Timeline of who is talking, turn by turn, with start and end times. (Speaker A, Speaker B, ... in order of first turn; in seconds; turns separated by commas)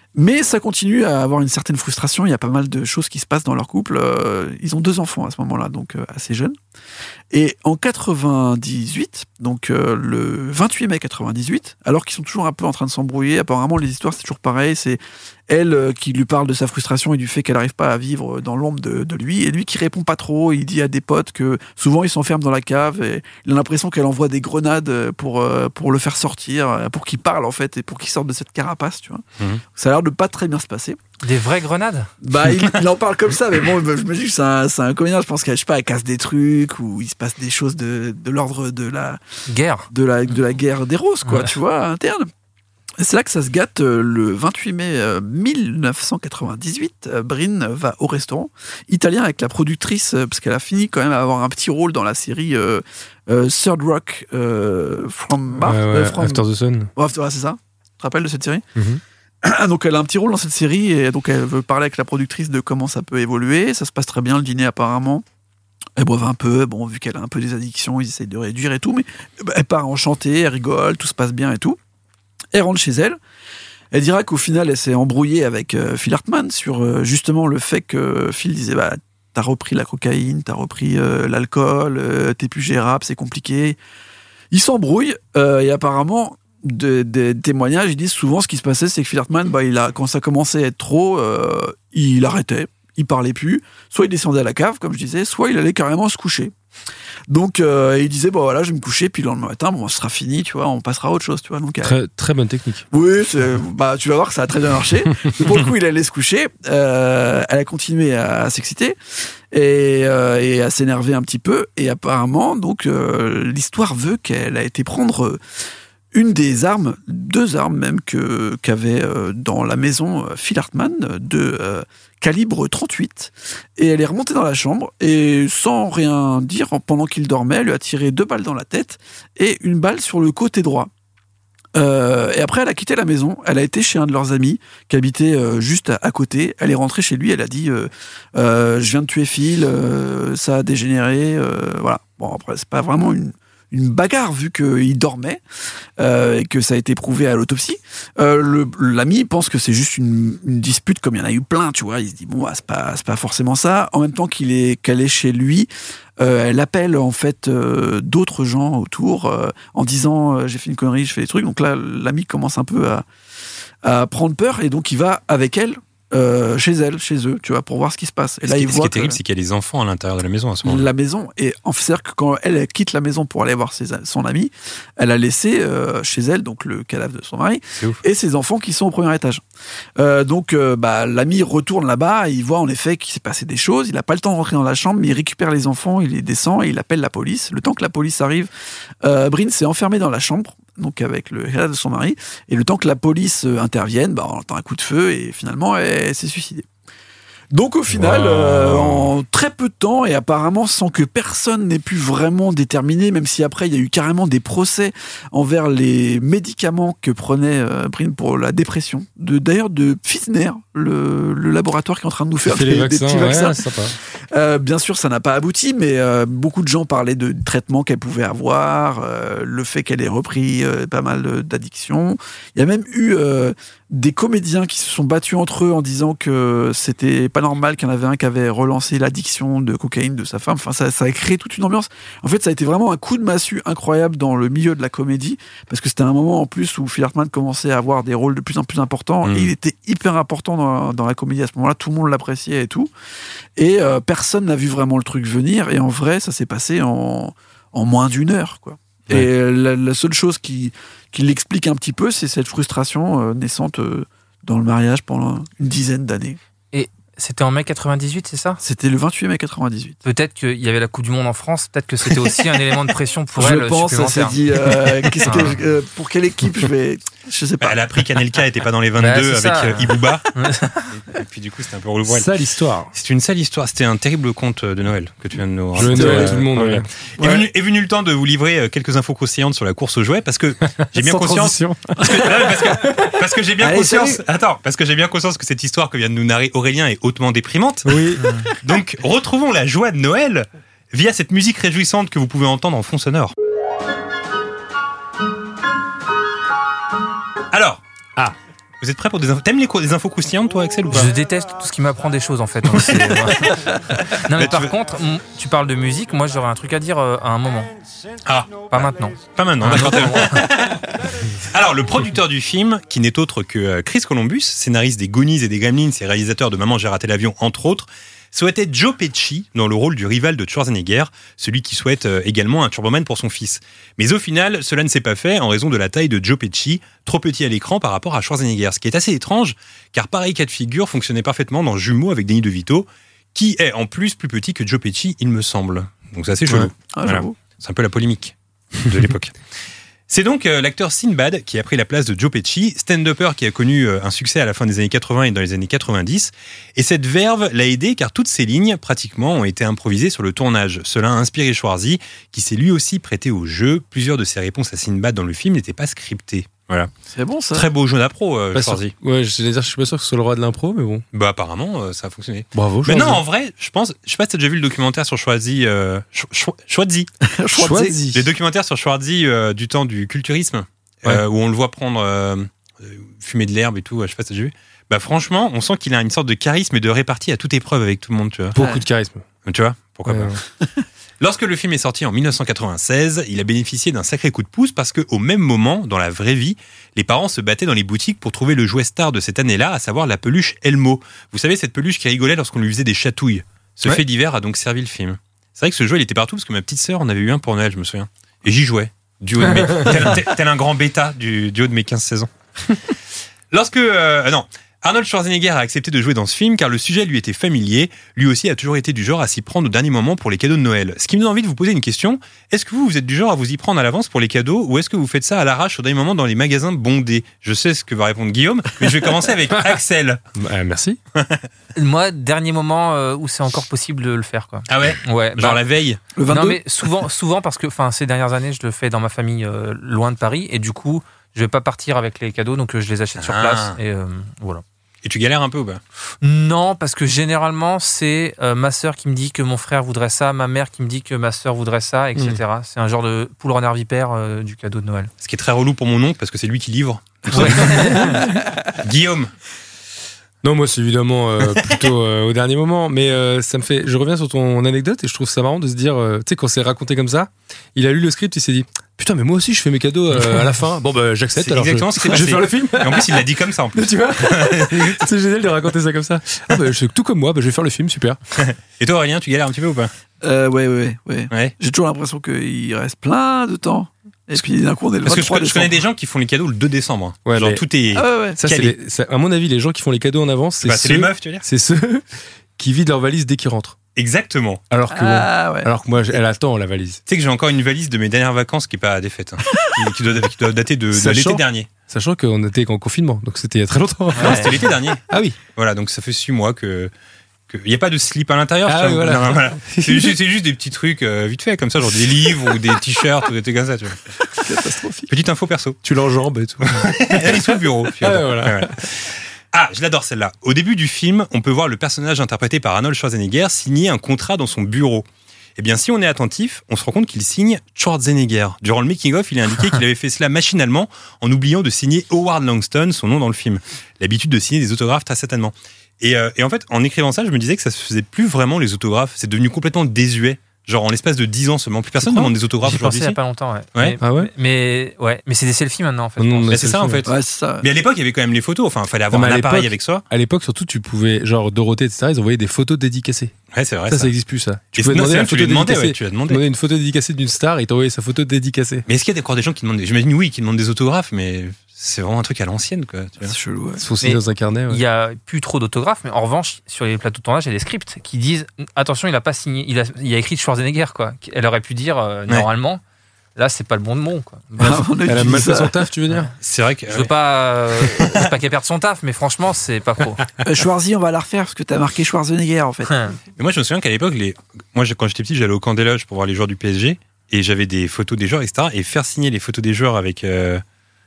Speaker A: 0.1-6.5, Speaker A: 7.3-29.2, Speaker A: 29.7-31.0, Speaker B: 31.2-32.1, Speaker A: 32.2-39.2, Speaker B: 39.5-39.9, Speaker A: 39.9-42.3, Speaker B: 41.2-41.5, Speaker A: 43.0-58.6, Speaker C: 55.6-56.9, Speaker C: 58.8-59.0, Speaker A: 59.4-65.2, Speaker A: 66.0-71.8, Speaker A: 72.5-73.2, Speaker A: 73.9-83.8, Speaker A: 84.5-96.5, Speaker A: 97.3-102.0, Speaker C: 101.8-102.8, Speaker A: 102.9-109.0, Speaker A: 109.5-115.4, Speaker A: 116.1-130.9, Speaker A: 131.7-145.4, Speaker A: 146.0-163.0, Speaker A: 163.8-169.2, Speaker D: 168.4-170.9, Speaker A: 170.6-179.4, Speaker D: 177.8-178.0, Speaker A: 180.0-188.5, Speaker A: 189.0-196.7, Speaker A: 197.5-242.9, Speaker D: 197.9-199.1, Speaker C: 212.4-213.9, Speaker D: 239.2-239.5, Speaker A: 243.6-256.4, Speaker B: 256.7-258.6, Speaker A: 258.6-260.0, Speaker B: 260.0-264.4, Speaker A: 263.4-267.8, Speaker B: 265.2-265.6, Speaker D: 267.6-270.3, Speaker B: 269.0-270.9, Speaker D: 270.9-272.3, Speaker C: 272.1-272.9, Speaker D: 272.9-288.0, Speaker C: 275.8-276.9, Speaker A: 275.8-276.5, Speaker A: 277.2-277.4, Speaker C: 280.8-283.0, Speaker A: 283.6-284.2, Speaker C: 287.8-288.3, Speaker D: 288.6-293.3, Speaker D: 297.5-297.8, Speaker D: 298.8-301.1, Speaker B: 300.9-307.7, Speaker D: 302.7-304.8, Speaker D: 308.2-339.4, Speaker B: 308.7-310.5, Speaker A: 336.5-337.4, Speaker D: 340.1-356.9, Speaker A: 357.1-357.7, Speaker D: 357.5-358.9, Speaker C: 358.5-361.0, Speaker D: 361.1-367.1, Speaker C: 362.5-363.2, Speaker A: 367.2-368.0, Speaker C: 367.5-368.3, Speaker D: 368.1-378.6, Speaker C: 378.5-379.2, Speaker A: 378.6-378.8, Speaker D: 379.4-380.4, Speaker C: 380.1-380.4, Speaker D: 381.2-402.9, Speaker D: 403.5-420.2, Speaker C: 419.5-419.8, Speaker C: 420.4-421.0, Speaker D: 421.1-421.4, Speaker B: 421.7-425.6, Speaker D: 424.7-426.0, Speaker A: 426.1-426.6, Speaker B: 426.3-434.6, Speaker D: 433.2-433.8, Speaker D: 435.0-435.8, Speaker B: 436.2-445.1, Speaker D: 445.2-448.2, Speaker B: 447.3-448.2, Speaker C: 447.6-448.2, Speaker D: 448.8-449.3, Speaker C: 450.4-468.2, Speaker D: 461.4-465.1, Speaker D: 468.4-469.9, Speaker A: 470.2-475.8, Speaker D: 475.0-478.7, Speaker C: 477.2-477.6, Speaker A: 477.9-478.4, Speaker C: 478.4-482.1, Speaker D: 480.6-481.4, Speaker C: 482.6-483.8, Speaker D: 483.9-484.6, Speaker C: 484.7-487.0, Speaker A: 484.9-485.7, Speaker D: 487.1-491.7, Speaker C: 490.9-495.4, Speaker D: 494.2-495.0, Speaker D: 495.5-496.9, Speaker D: 497.5-504.0, Speaker C: 498.6-500.1, Speaker A: 504.3-505.1, Speaker D: 505.1-505.8, Speaker C: 505.8-508.8, Speaker D: 506.6-515.0, Speaker D: 515.6-533.2, Speaker B: 532.0-536.6, Speaker C: 534.0-534.3, Speaker C: 536.2-537.1, Speaker D: 536.5-537.1, Speaker A: 537.0-537.7, Speaker D: 537.6-540.0, Speaker C: 539.1-543.3, Speaker D: 543.5-544.1, Speaker C: 543.9-548.9, Speaker D: 544.7-546.4, Speaker D: 548.9-553.3, Speaker A: 553.2-553.8, Speaker C: 553.8-554.8, Speaker B: 554.0-562.8, Speaker B: 563.4-564.9, Speaker A: 564.6-565.8, Speaker C: 565.0-566.3, Speaker D: 566.4-567.1, Speaker B: 566.9-570.2, Speaker A: 570.4-572.9, Speaker B: 572.9-573.2, Speaker D: 573.4-580.6